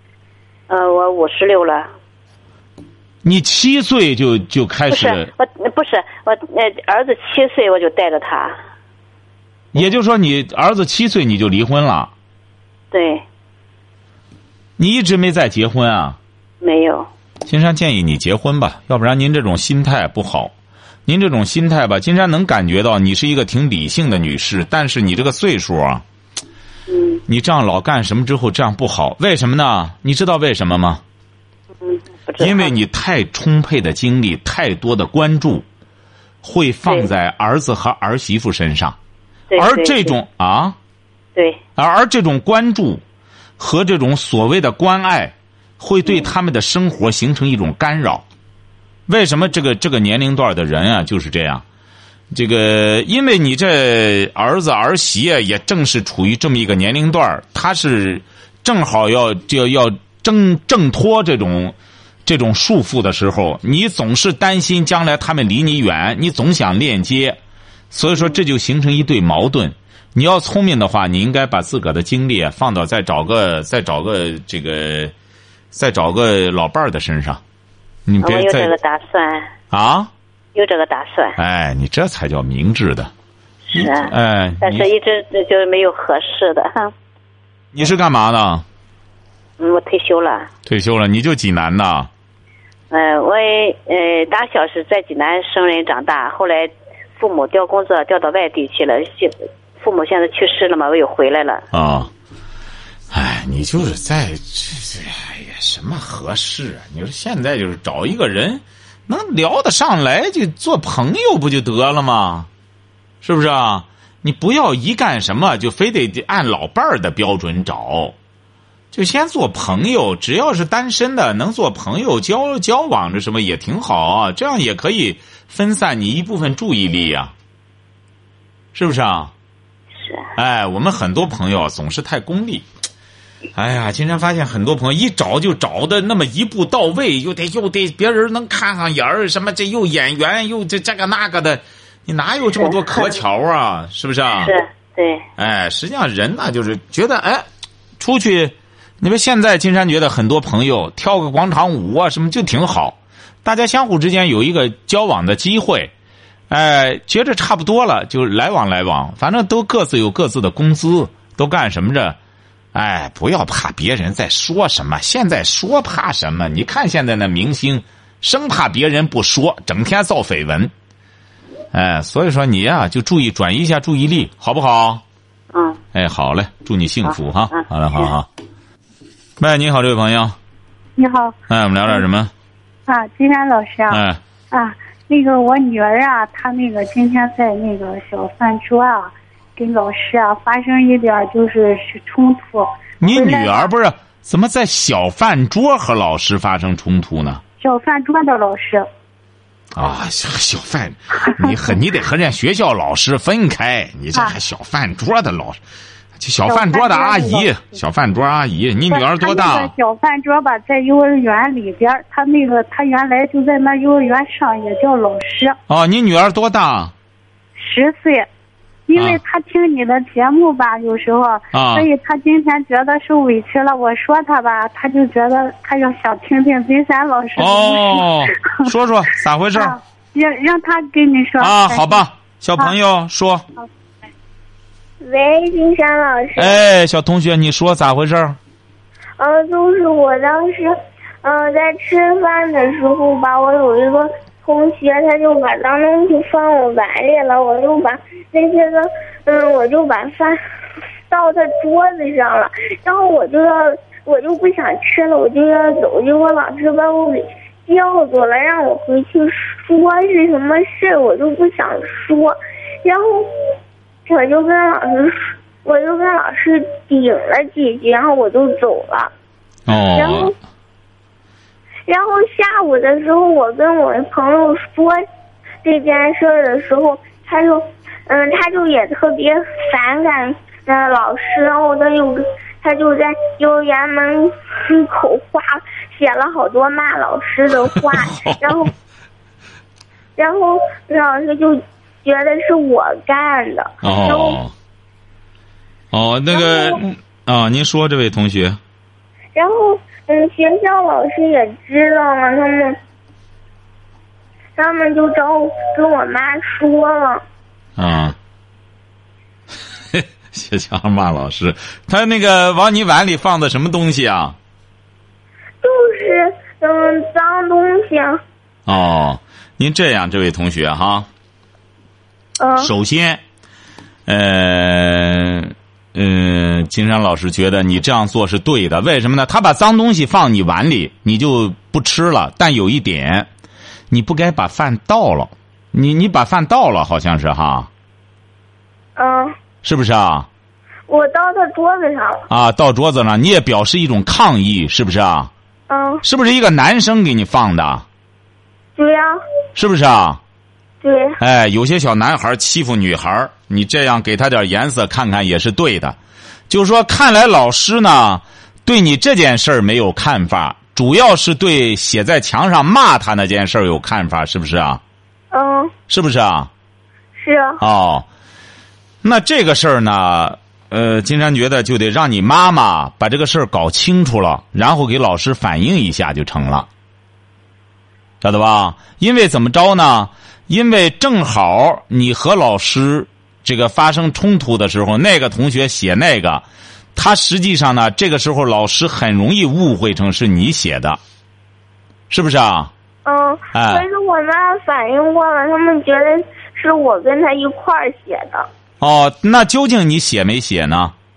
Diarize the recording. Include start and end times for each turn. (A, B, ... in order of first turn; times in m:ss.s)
0:00.7-0:01.9 A
0:03.2-0:05.3 B
0:04.9-0:08.6 A
0:09.7-0:12.1 B
0:12.9-0:13.2 A
0:14.8-0:16.2 B
0:16.6-0:17.1 A
0:17.5-0:20.5 B
0:21.1-0:26.0 B
0:26.9-0:27.2 A
0:27.3-0:31.0 B
0:31.8-0:32.7 A
0:32.4-0:35.6 B
0:36.4-0:39.0 B
0:39.5-0:40.2 A
0:39.6-0:40.8 B
0:41.8-0:43.0 B
0:43.6-0:48.2 B
0:49.1-0:51.6 B
0:52.3-1:01.7 B
1:02.2-1:07.4 B
1:07.9-1:15.1 B
1:15.7-1:17.4 B
1:18.1-1:18.7 B
1:18.2-1:19.5 A
1:19.7-1:20.1 B
1:20.5-1:21.4 A
1:21.4-1:23.1 B
1:23.7-1:26.9 A
1:23.7-1:24.9 B
1:27.7-1:28.6 B
1:29.6-1:30.5 A
1:30.6-1:32.1 B
1:32.9-1:41.6 A
1:41.7-1:42.1 B
1:43.1-1:52.5 B
1:53.2-1:58.1 B
1:58.9-2:07.3 B
2:08.7-2:09.3 B
2:10.0-2:10.3 A
2:10.4-2:12.6 B
2:13.6-2:24.5 B
2:22.6-2:23.0 A
2:24.3-2:25.2 A
2:25.4-2:27.4 B
2:28.0-2:35.9 B
2:36.5-2:42.2 B
2:42.7-2:50.7 B
2:51.7-2:55.0 B
2:55.5-2:55.8 A
2:55.9-2:58.3 B
2:57.0-2:58.1 A
2:59.4-3:00.3 B
3:01.0-3:01.3 C
3:01.5-3:02.3 B
3:02.9-3:13.7 C
3:03.9-3:04.2 B
3:13.0-3:17.4 B
3:17.6-3:18.9 C
3:19.7-3:25.6 B
3:21.2-3:21.5 C
3:26.2-3:29.7 B
3:26.4-3:27.5 C
3:28.9-3:35.6 C
3:35.7-3:36.9 B
3:37.6-3:38.2 C
3:38.9-3:48.7 C
3:41.5-3:41.9 B
3:47.4-3:49.8 B
3:49.5-3:52.0 C
3:51.4-3:53.4 B
3:55.0-3:56.6 D
3:56.4-3:58.4 B
3:59.2-4:10.4 D
4:11.1-4:23.3 D
4:24.1-4:29.1 D
4:29.7-4:30.3 B
4:30.0-4:30.3 D
4:31.9-4:35.0 D
4:35.6-4:48.7 D
4:47.7-4:48.6 B
4:50.2-4:54.4 D
4:53.8-4:54.5 B
4:55.9-4:58.6 B
4:56.3-4:56.8 D
4:59.3-5:02.8 D
5:04.6-5:07.2 D
5:07.8-5:08.2 B
5:09.9-5:14.4 B
5:15.6-5:18.2 D
5:18.7-5:21.1 B
5:22.4-5:22.7 D
5:22.6-5:23.2 B
5:24.1-5:33.3 B
5:33.9-5:37.7 B
5:39.0-5:39.3 D
5:39.6-5:40.3 B
5:40.9-5:42.2 D
5:42.3-5:45.3 B
5:45.7-5:46.0 D
5:46.0-5:47.8 B
5:48.8-5:49.2 D
5:49.6-5:50.2 B
5:50.8-5:51.2 D
5:51.2-5:56.0 B
5:56.5-6:04.8 B
6:05.3-6:05.7 D
6:05.9-6:06.5 B
6:07.2-6:07.6 D
6:07.6-6:08.0 B
6:09.0-6:16.7 B
6:18.2-6:26.4 B
6:27.0-6:31.0 B
6:32.1-6:32.7 B
6:33.0-6:38.5 D
6:33.5-6:33.8 B
6:38.8-6:40.9 B